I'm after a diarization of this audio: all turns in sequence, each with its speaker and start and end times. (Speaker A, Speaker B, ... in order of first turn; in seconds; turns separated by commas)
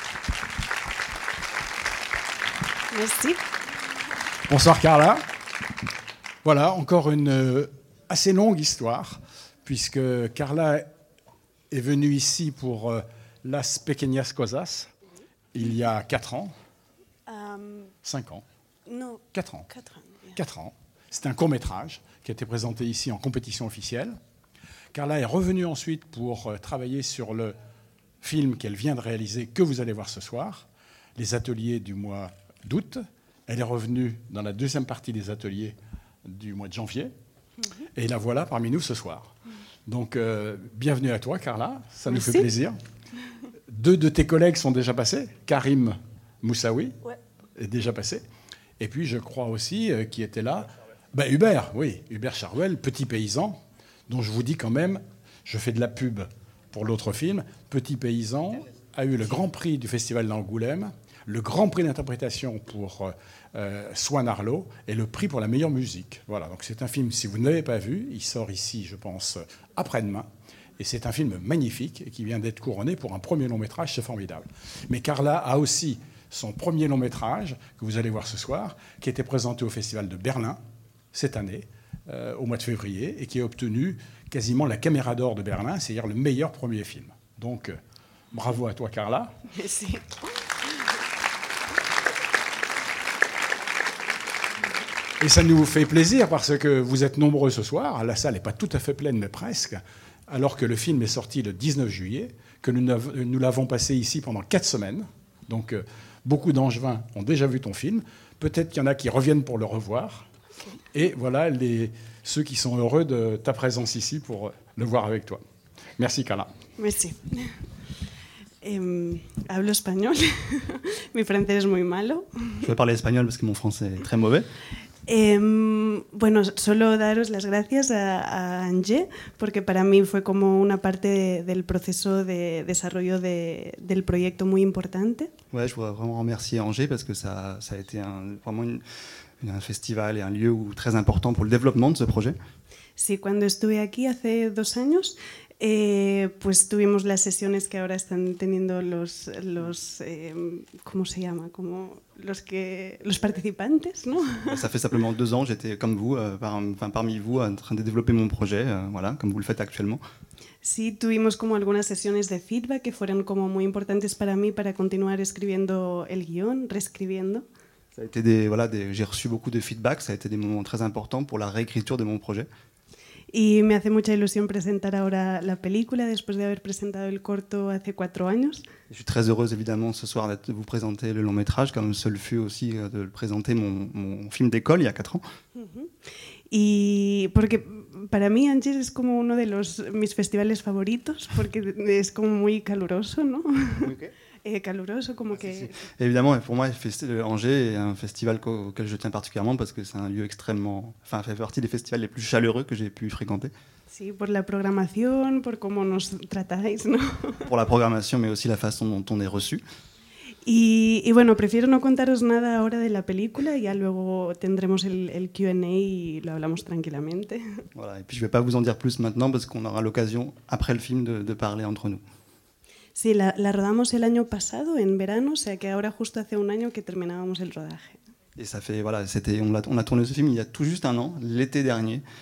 Speaker A: 2.9-3.4, Speaker B: 4.5-5.2, Speaker B: 6.4-10.8, Speaker B: 11.7-14.9, Speaker B: 15.5-16.5, Speaker A: 17.3-17.9, Speaker B: 18.0-18.4, Speaker A: 18.9-20.3, Speaker B: 19.3-19.7, Speaker B: 20.3-24.2, Speaker B: 24.9-27.5, Speaker B: 28.2-37.1, Speaker B: 38.0-39.3, Speaker B: 39.9-42.8, Speaker A: 42.1-42.5, Speaker B: 43.7-47.0, Speaker B: 47.6-48.2, Speaker B: 48.8-70.2, Speaker B: 70.8-80.6, Speaker B: 81.1-87.8, Speaker B: 88.3-89.3, Speaker A: 89.5-90.7, Speaker B: 95.2-110.3, Speaker B: 110.9-115.4, Speaker B: 116.0-116.5, Speaker A: 116.8-117.6, Speaker A: 118.6-122.7, Speaker C: 122.6-124.5, Speaker A: 125.1-135.3, Speaker C: 135.5-138.8, Speaker C: 139.4-142.3, Speaker A: 143.0-154.7, Speaker C: 154.3-160.0, Speaker A: 160.6-167.4, Speaker C: 167.9-172.5, Speaker A: 173.3-178.7, Speaker C: 178.9-185.2, Speaker A: 185.5-185.9, Speaker A: 186.5-195.8, Speaker C: 193.8-194.1, Speaker C: 195.3-203.5, Speaker A: 203.9-207.5, Speaker C: 207.5-209.6, Speaker A: 210.4-217.6, Speaker C: 217.8-222.0, Speaker A: 222.9-228.0, Speaker C: 228.3-232.0